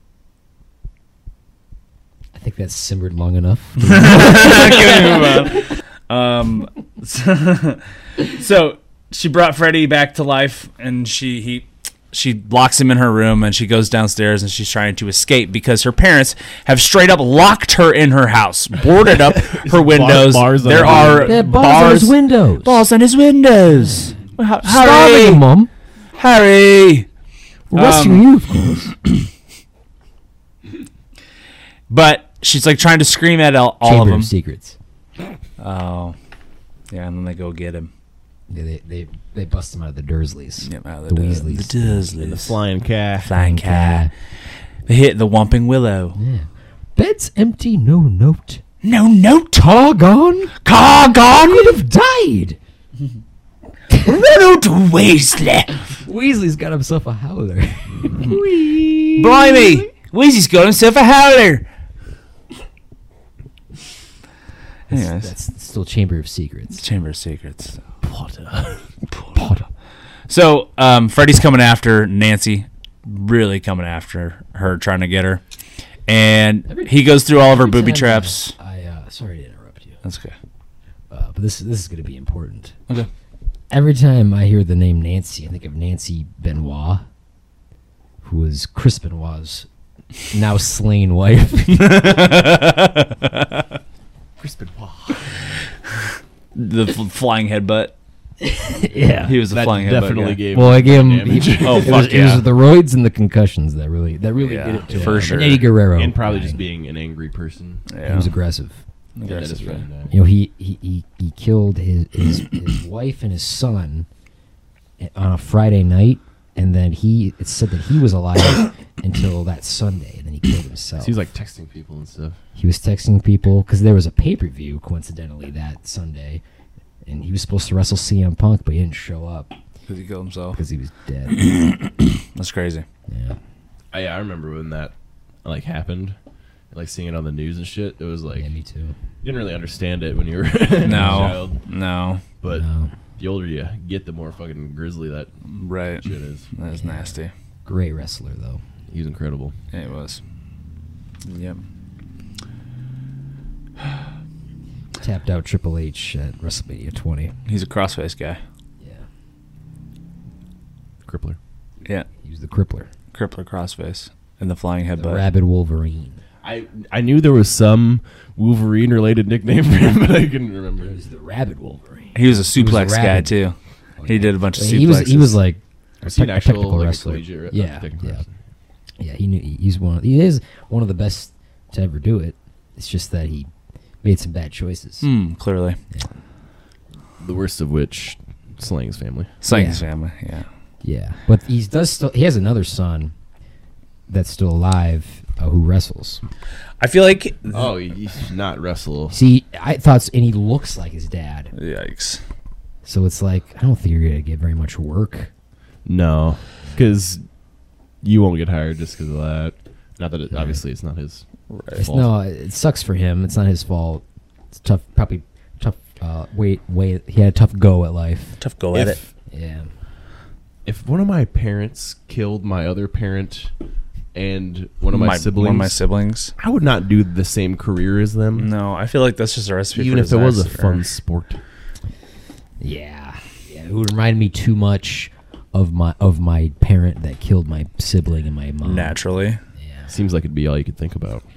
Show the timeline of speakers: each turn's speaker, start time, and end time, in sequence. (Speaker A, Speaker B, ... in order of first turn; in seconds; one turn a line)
Speaker A: 2.3-5.6
Speaker B: 3.8-25.4
Speaker C: 19.3-21.4
Speaker A: 20.7-22.8
Speaker A: 23.7-25.7
Speaker B: 26.2-27.1
Speaker A: 27.7-28.9
Speaker B: 27.7-28.4
Speaker B: 31.9-34.3
Speaker A: 33.8-34.8
Speaker B: 35.6-36.1
Speaker B: 36.9-37.9
Speaker A: 38.5-42.1
Speaker B: 40.6-42.6
Speaker C: 42.2-43.3
Speaker B: 43.2-44.1
Speaker A: 43.2-44.1
Speaker B: 44.9-46.2
Speaker A: 46.1-48.6
Speaker B: 48.8-49.8
Speaker A: 49.6-50.6
Speaker B: 50.6-51.8
Speaker A: 51.2-52.6
Speaker B: 53.9-55.9
Speaker A: 56.0-59.9
Speaker B: 59.1-61.6
Speaker B: 64.9-65.3
Speaker A: 64.9-66.8
Speaker B: 66.7-67.8
Speaker C: 68.0-68.8
Speaker B: 69.1-69.4
Speaker A: 69.3-69.6
Speaker B: 70.3-75.4
Speaker B: 76.1-78.5
Speaker A: 76.7-80.0
Speaker B: 80.0-80.3
Speaker A: 81.1-82.8
Speaker A: 83.7-87.0
Speaker A: 88.2-89.7
Speaker A: 90.3-92.2
Speaker B: 91.7-93.6
Speaker C: 94.4-95.5
Speaker B: 96.5-97.9
Speaker A: 98.4-99.4
Speaker B: 99.2-100.4
Speaker C: 99.5-102.1
Speaker A: 100.5-106.6
Speaker B: 101.6-102.5
Speaker B: 104.4-105.7
Speaker C: 104.9-107.8
Speaker B: 107.9-108.3
Speaker A: 108.0-108.8
Speaker B: 109.2-109.8
Speaker C: 109.2-110.2
Speaker A: 110.1-114.1
Speaker A: 115.0-121.2
Speaker C: 121.0-122.4
Speaker A: 122.5-126.4
Speaker A: 127.0-129.5
Speaker B: 129.9-130.6
Speaker A: 130.5-131.4
Speaker B: 131.3-132.8
Speaker A: 133.1-133.4
Speaker C: 133.9-134.9
Speaker C: 135.4-136.2
Speaker C: 136.7-138.5
Speaker A: 138.3-139.0
Speaker C: 139.2-141.6
Speaker B: 140.8-142.2
Speaker A: 140.8-141.4
Speaker C: 142.4-142.7
Speaker A: 142.5-142.9
Speaker C: 143.2-145.3
Speaker B: 145.5-147.3
Speaker C: 146.0-146.5
Speaker A: 146.7-148.6
Speaker C: 148.9-149.5
Speaker B: 149.7-150.2
Speaker B: 151.2-151.6
Speaker A: 155.0-157.3
Speaker B: 157.4-158.4
Speaker A: 158.8-159.1
Speaker C: 161.1-161.4
Speaker A: 162.2-162.9
Speaker B: 163.1-165.2
Speaker A: 165.0-166.2
Speaker C: 166.4-171.0
Speaker A: 170.8-173.4
Speaker B: 172.1-175.4
Speaker A: 174.0-178.2
Speaker C: 176.0-178.3
Speaker A: 179.0-183.5
Speaker A: 184.0-185.1
Speaker B: 185.0-185.8
Speaker C: 187.2-189.3
Speaker B: 189.4-190.5
Speaker A: 189.5-189.8
Speaker A: 190.8-193.1
Speaker A: 194.1-196.2
Speaker B: 196.8-197.7
Speaker C: 197.5-199.2
Speaker A: 199.1-201.5
Speaker B: 201.5-202.2
Speaker A: 202.8-205.3
Speaker C: 205.8-207.2
Speaker C: 208.0-212.1
Speaker A: 210.3-210.6
Speaker B: 211.5-211.8
Speaker A: 211.7-218.4
Speaker B: 218.4-219.0
Speaker C: 218.7-219.1
Speaker A: 219.3-219.7
Speaker C: 220.7-223.5
Speaker C: 224.1-225.8
Speaker B: 224.9-226.3
Speaker C: 226.4-228.5
Speaker B: 228.3-230.8
Speaker C: 229.7-231.4
Speaker A: 232.6-239.0
Speaker B: 238.6-239.4
Speaker A: 239.6-239.9
Speaker C: 239.9-241.2